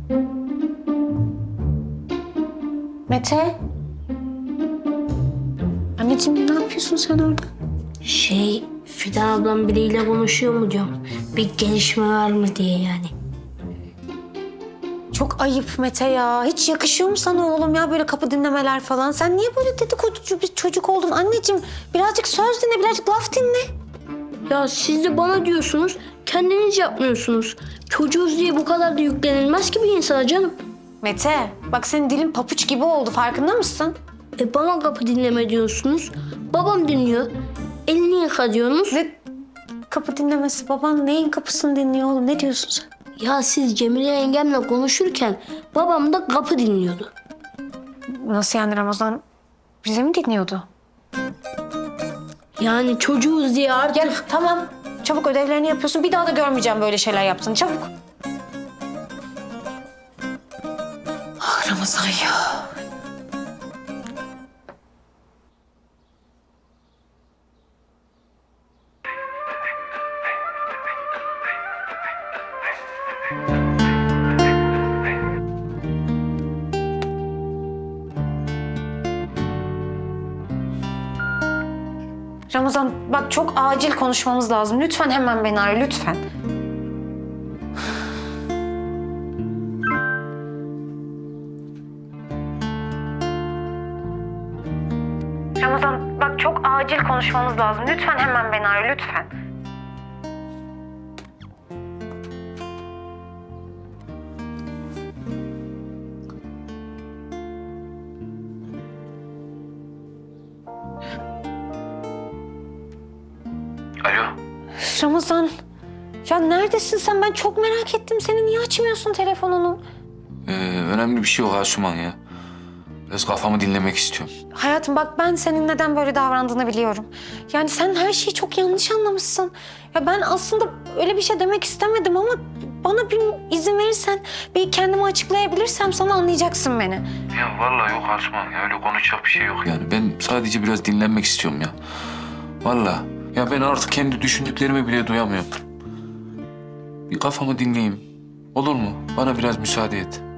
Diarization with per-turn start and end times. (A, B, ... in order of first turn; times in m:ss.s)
0:03.1-0:03.6 A
0:06.0-0:07.5 A
0:08.0-0:13.1 B
0:15.1-0:23.7 A
0:24.5-0:30.6 B
0:31.0-0:34.0 A
0:34.4-0:37.3 B
0:37.9-0:39.0 B
0:38.9-0:39.2 A
0:39.9-0:42.9 A
0:43.2-0:47.1 B
0:48.1-0:49.2 A
0:49.8-0:50.7 A
0:52.6-0:54.2 B
0:53.9-0:57.9 A
1:01.4-1:02.7 A
1:22.5-1:26.2 A
1:35.6-1:39.3 A
1:54.0-1:54.4 C
1:54.8-1:55.5 A
1:56.2-1:59.8 A
2:00.5-2:02.2 C
2:03.1-2:04.3 C
2:04.5-2:17.0 A
2:17.3-2:21.8 C
2:22.6-2:25.6 C
2:27.1-2:30.2 C